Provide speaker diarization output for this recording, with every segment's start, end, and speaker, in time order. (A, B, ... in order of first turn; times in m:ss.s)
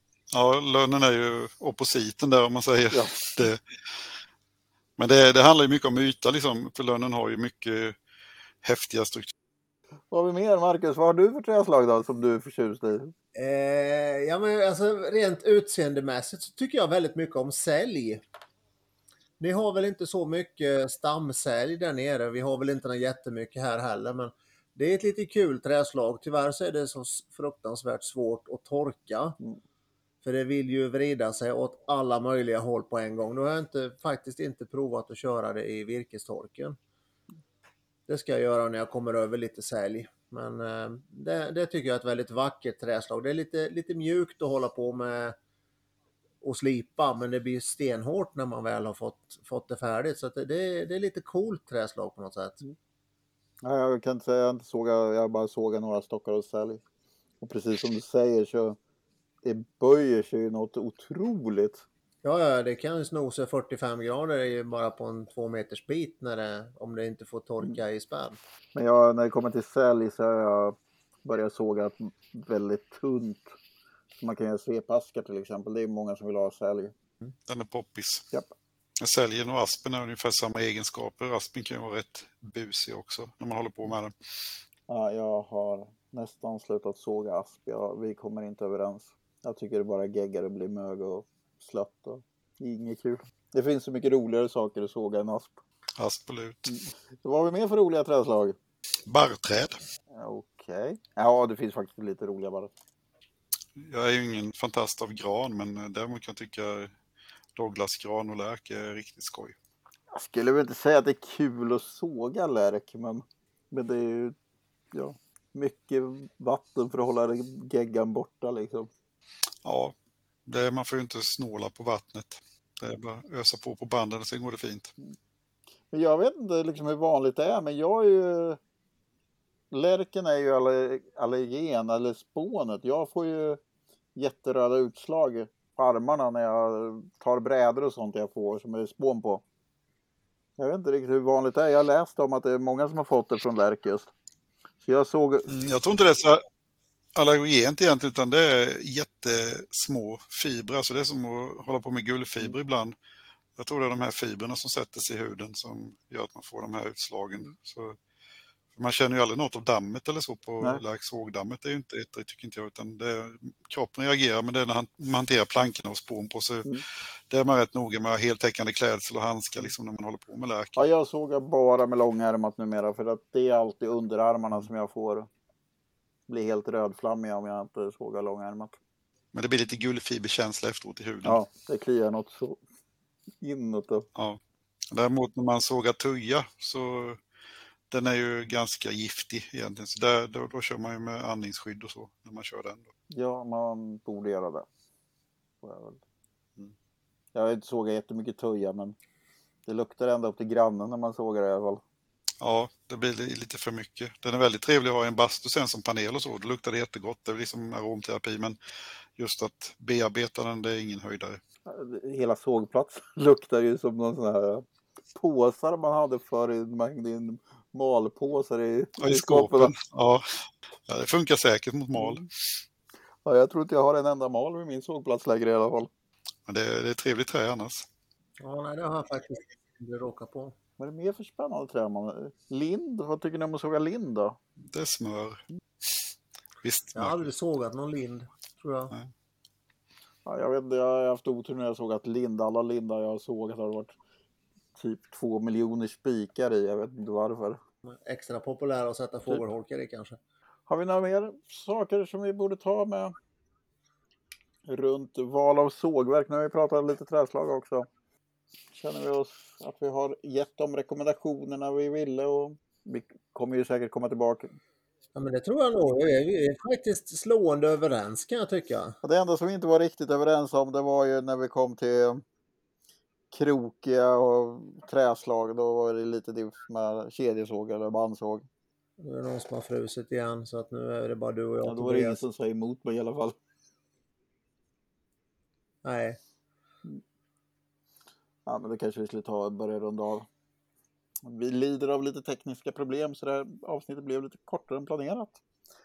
0:00.3-0:04.1 A
0:05.0-0:08.0 A
0:08.6-0:09.3 A
0:10.1-0:13.1 B
0:13.3-0:18.2 C
0:19.4-0:29.4 C
0:30.2-0:36.8 C
0:38.1-0:45.4 C
0:46.4-0:52.6 C
0:53.6-0:56.8 B
0:57.4-0:58.8 B
0:59.4-1:01.8 B
1:02.2-1:08.4 C
1:08.7-1:13.5 B
1:14.2-1:16.9 B
1:17.4-1:18.2 A
1:19.0-1:24.1 A
1:24.9-1:35.6 B
1:36.0-1:36.8 A
1:36.7-1:38.6 B
1:39.0-1:39.8 A
1:40.1-1:42.7 B
1:43.8-1:46.9 A
1:47.5-1:49.6 A
1:50.1-1:54.3 B
1:54.9-1:58.9 B
1:59.6-1:59.9 A
2:00.4-2:04.9 A
2:05.9-2:08.6 B
2:09.7-2:13.6 B
2:14.1-2:19.4 B
2:20.6-2:24.1 B
2:24.8-2:25.5 B
2:25.5-2:26.4 A
2:27.1-2:33.0 A
2:33.6-2:38.0 A
2:38.7-2:46.7 A
2:47.3-2:50.8 A
2:50.8-2:55.3 B
2:56.3-2:58.8 B
2:59.3-3:01.4 A
3:01.2-3:02.6 B
3:03.4-3:04.1 B
3:04.1-3:07.2 A
3:07.9-3:12.9 A
3:13.1-3:14.7 B
3:15.6-3:16.0 B
3:17.3-3:19.0 B
3:19.6-3:21.8 B
3:22.4-3:28.6 A
3:29.2-3:31.4 A
3:31.6-3:39.7 B
3:39.0-3:40.2 A
3:40.8-3:42.6 A
3:42.0-3:42.2 B
3:43.2-3:45.9 B
3:46.4-3:47.9 A
3:48.4-3:50.5 C
3:50.8-3:54.4 B
3:54.7-3:56.1 A
3:56.6-3:57.3 A
3:56.9-3:58.9 C
4:00.2-4:04.0 B
4:04.8-4:07.6 B
4:07.8-4:10.2 C
4:10.7-4:13.1 B
4:14.7-4:17.9 B
4:18.7-4:24.5 B
4:25.1-4:29.0 C
4:29.0-4:32.2 B
4:33.3-4:38.5 B
4:39.0-4:42.2 C
4:41.6-4:43.4 B
4:45.8-4:46.2 C
4:48.4-4:50.3 B
4:51.2-4:55.4 B